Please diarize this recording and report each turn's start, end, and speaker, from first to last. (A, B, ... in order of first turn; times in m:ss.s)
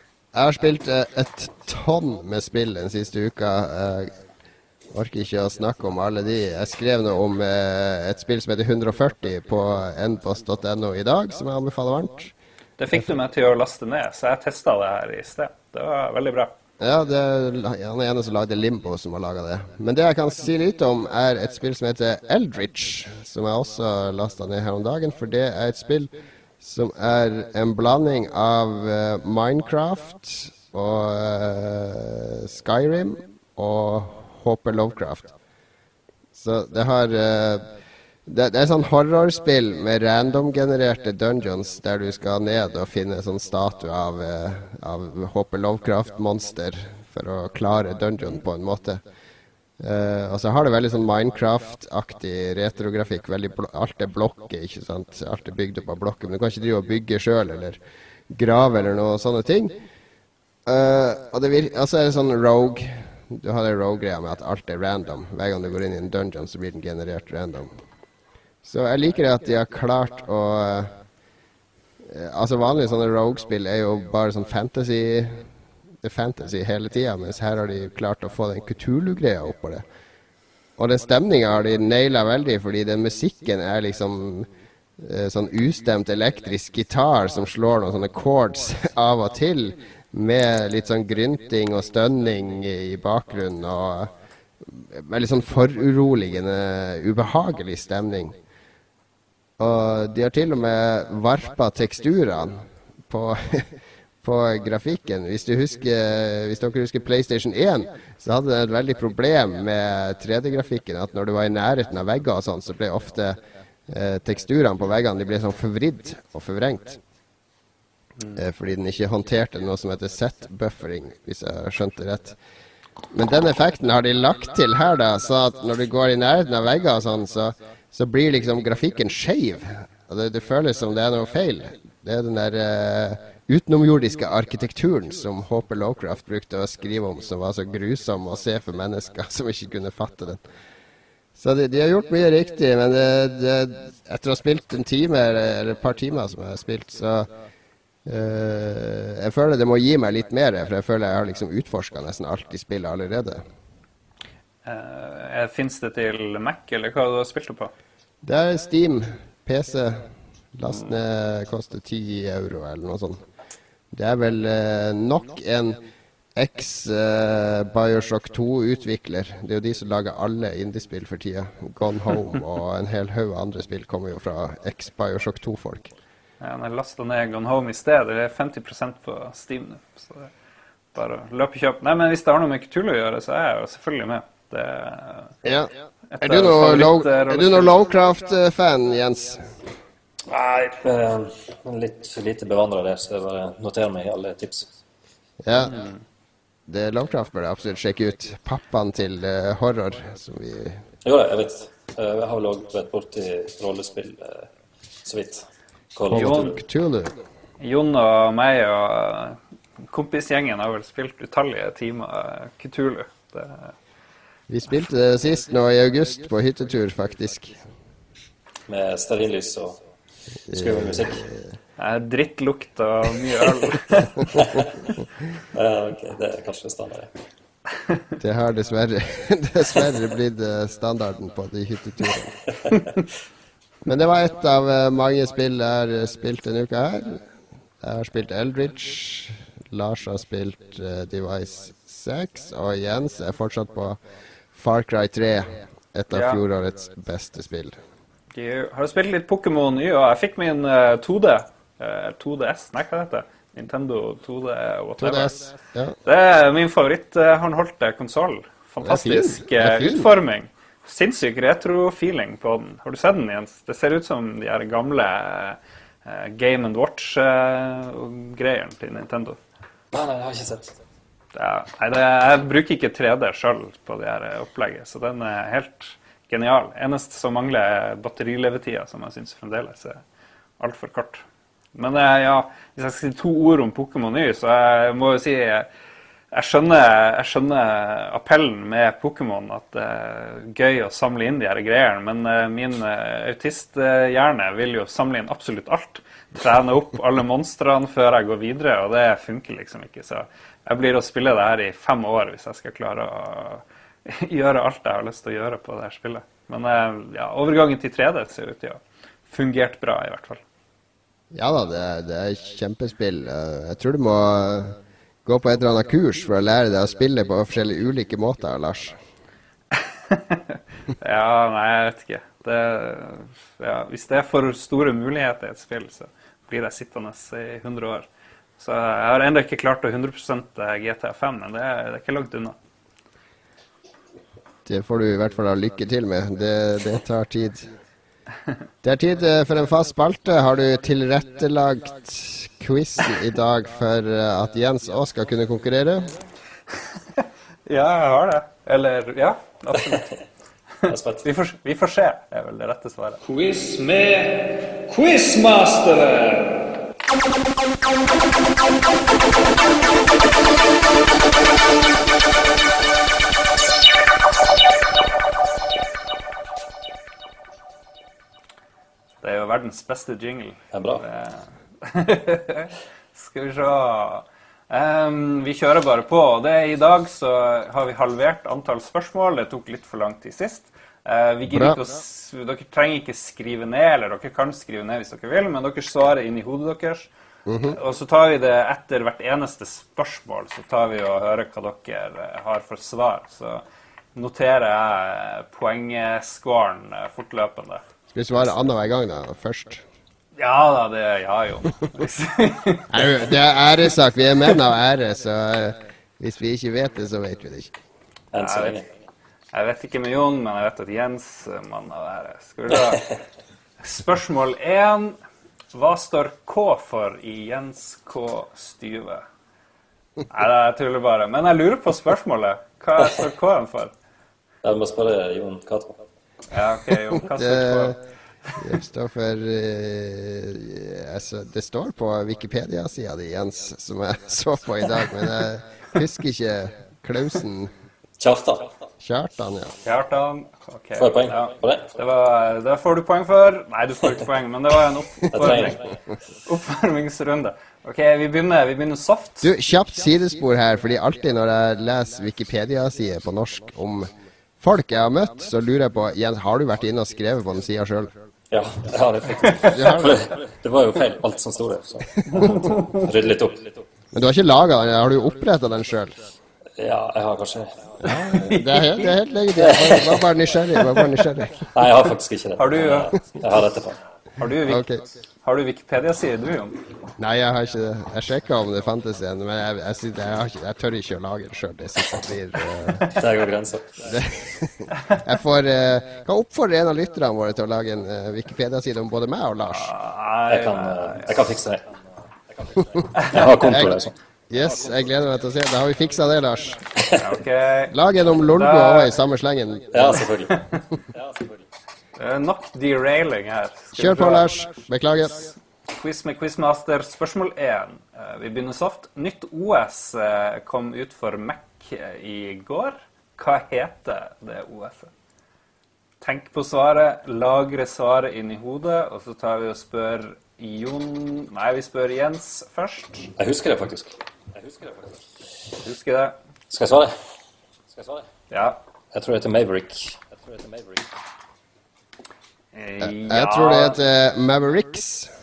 0:00.3-0:04.1 A
0:04.9-0:12.3 A
0:12.8-0:16.5 B
0:16.8-0:35.3 A
0:36.3-0:37.6 A
0:38.2-0:49.0 A
0:49.8-0:57.8 A
0:58.3-0:59.7 A
1:00.6-1:07.7 A
1:08.6-1:10.9 A
1:12.0-1:15.5 A
1:16.0-1:19.8 A
1:20.8-1:38.3 A
1:39.6-1:57.0 A
1:58.3-2:02.4 A
2:03.1-2:20.4 A
2:21.4-2:27.3 A
2:28.0-2:33.4 A
2:34.6-2:37.7 B
2:38.2-2:43.2 A
2:43.9-2:45.8 A
2:46.4-2:55.9 A
2:56.4-3:00.3 B
3:00.9-3:05.3 B
3:05.4-3:09.6 A
3:06.1-3:07.8 B
3:10.3-3:14.7 C
3:15.4-3:15.8 A
3:15.6-3:16.0 B
3:16.7-3:20.8 A
3:21.0-3:24.5 C
3:25.0-3:26.6 C
3:26.1-3:27.2 A
3:26.1-3:26.6 B
3:27.6-3:29.4 B
3:29.9-3:33.7 B
3:34.5-3:37.6 A
3:38.7-3:39.8 C
3:40.5-3:41.5 A
3:40.5-3:41.2 C
3:41.8-3:44.1 B
3:44.3-3:44.7 C
3:45.5-3:47.1 C
3:48.2-3:52.4 A
3:53.8-3:57.2 A
3:57.8-4:04.0 A
4:04.5-4:07.8 A
4:06.1-4:06.4 B
4:08.3-4:15.3 B
4:15.0-4:16.0 A
4:16.0-4:29.4 B
4:18.8-4:20.1 A
4:29.9-4:30.8 C
4:31.3-4:40.0 B
4:40.6-4:41.2 B
4:41.7-4:45.7 B
4:46.3-5:10.4 B
5:11.3-5:19.0 A
5:20.1-5:28.1 B
5:28.6-5:32.6 B
5:34.6-5:37.7 A
5:38.8-5:46.1 A
5:47.6-5:50.1 B
5:50.9-5:51.2 C
5:51.2-5:56.6 B
6:09.2-6:27.1 B
6:10.7-6:11.0 C
6:27.5-6:27.8 A
6:27.6-6:33.6 B
6:34.1-6:37.8 B
6:38.1-6:39.8 A
6:40.4-6:43.1 B
6:42.9-6:47.7 A
6:48.3-6:48.8 C
6:48.4-6:48.8 B
6:49.5-6:53.1 B
6:53.8-6:55.2 B
6:55.7-6:59.2 B
7:00.3-7:03.9 B
7:04.6-7:06.0 C
7:06.5-7:08.0 B
7:07.1-7:08.0 A
7:08.6-7:17.7 A
7:18.2-7:18.7 C
7:19.0-7:19.8 A
7:19.8-7:25.9 B
7:21.0-7:21.9 C
7:25.3-7:25.8 C
7:26.4-7:29.5 B
7:29.4-7:34.1 A
7:34.6-7:38.1 A
7:38.5-7:43.7 C
7:39.4-7:39.7 B
7:39.7-7:40.2 A
7:42.3-7:43.1 B
7:44.1-7:46.2 A
7:46.8-7:47.9 C
7:48.0-7:51.7 A
7:48.0-7:49.1 B
7:49.6-7:50.3 C
7:51.6-7:54.0 C
7:52.6-7:53.2 B
7:54.4-7:54.9 B
7:54.6-7:55.0 A
7:55.4-7:56.8 B
7:57.2-8:03.1 A
8:03.0-8:04.0 C
8:04.0-8:09.9 A
8:09.7-8:11.5 B
8:10.5-8:11.9 C
8:12.8-8:14.1 C
8:13.2-8:13.4 B
8:13.6-8:14.0 A
8:14.5-8:16.8 A
8:17.0-8:17.2 C
8:17.2-8:17.9 B
8:17.9-8:20.3 A
8:18.5-8:19.2 B
8:19.9-8:21.5 C
8:22.2-8:24.5 B
8:23.9-8:25.5 A
8:25.9-8:35.1 B
8:36.2-8:43.3 B
8:43.4-8:45.2 C
8:45.8-8:46.4 B
8:46.7-8:47.2 C
8:47.9-8:48.3 C
8:48.5-8:48.8 B
8:49.1-8:51.1 C
8:52.7-8:54.0 B
8:53.0-8:55.3 A